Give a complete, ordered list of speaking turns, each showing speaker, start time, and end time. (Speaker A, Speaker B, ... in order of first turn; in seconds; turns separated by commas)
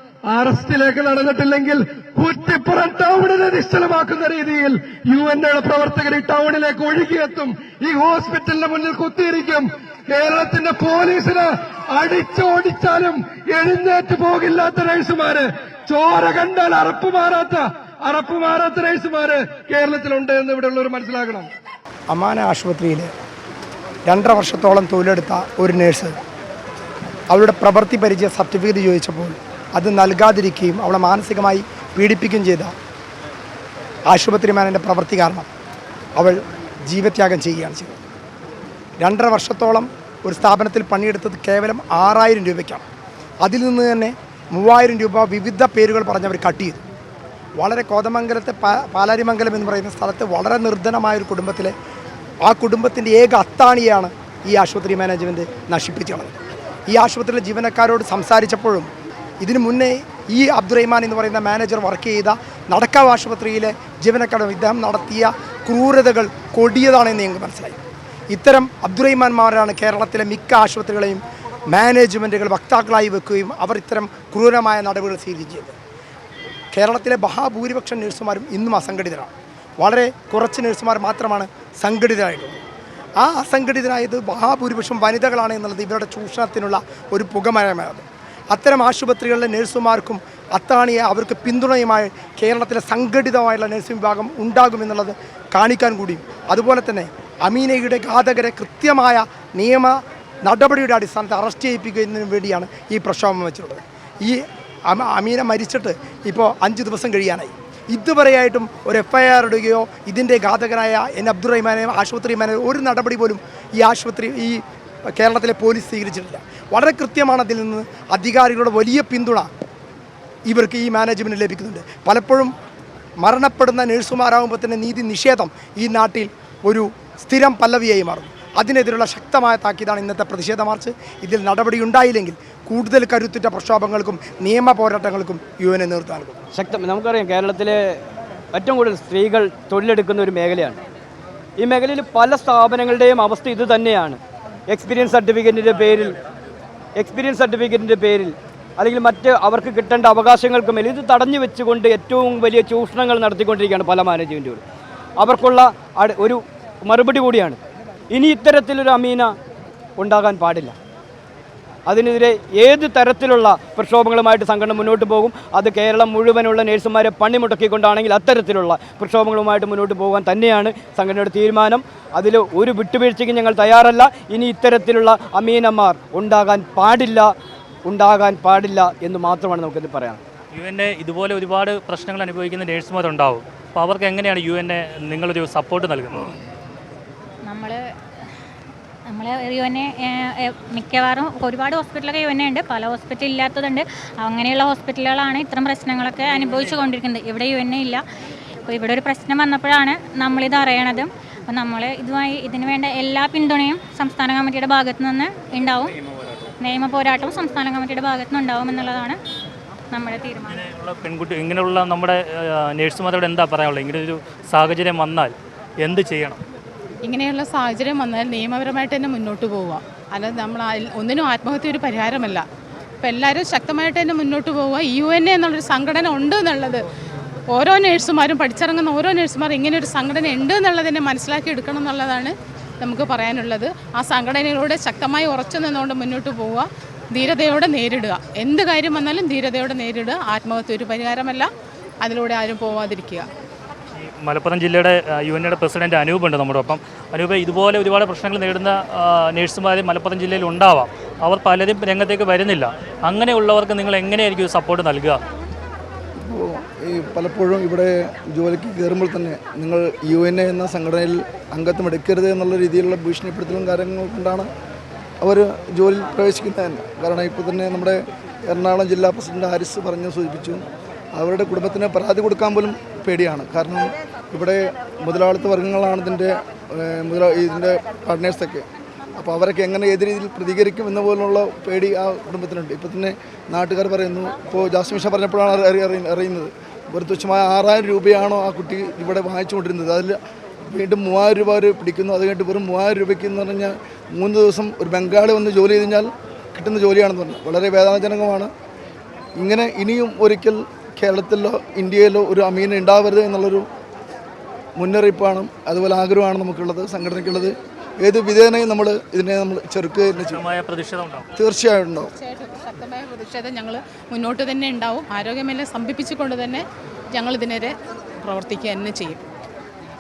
Speaker A: 0.3-21.5, Speaker B: 22.1-23.1, Speaker B: 24.1-26.1, Speaker B: 27.3-32.7, Speaker B: 34.1-35.5, Speaker B: 36.2-38.0, Speaker B: 39.0-42.8, Speaker B: 43.4-46.8, Speaker B: 47.6-51.7, Speaker B: 52.4-56.3, Speaker B: 56.9-58.9, Speaker B: 59.4-67.8, Speaker B: 68.3-75.8, Speaker B: 76.7-82.6, Speaker B: 83.2-114.6, Speaker B: 115.1-119.5, Speaker B: 120.5-122.5, Speaker B: 123.2-136.4, Speaker C: 136.5-137.8, Speaker C: 138.5-140.8, Speaker C: 141.6-146.2, Speaker C: 147.0-154.6, Speaker C: 155.2-157.6, Speaker C: 158.1-159.3, Speaker C: 160.0-160.7, Speaker C: 161.8-177.3, Speaker C: 177.8-180.2, Speaker D: 180.5-186.3, Speaker E: 187.4-187.8, Speaker E: 189.1-198.0, Speaker E: 198.7-205.9, Speaker E: 206.6-209.2, Speaker E: 209.9-210.6, Speaker D: 210.5-216.4, Speaker F: 217.0-222.4, Speaker F: 223.0-226.8, Speaker F: 227.5-241.5, Speaker F: 242.0-243.3, Speaker D: 244.0-255.2, Speaker G: 256.2-264.5, Speaker G: 265.2-270.6, Speaker G: 271.2-278.6, Speaker G: 279.2-290.2, Speaker G: 290.7-298.5, Speaker G: 299.4-303.7, Speaker G: 304.8-310.4, Speaker D: 310.1-311.3, Speaker G: 311.4-312.1, Speaker F: 312.1-319.2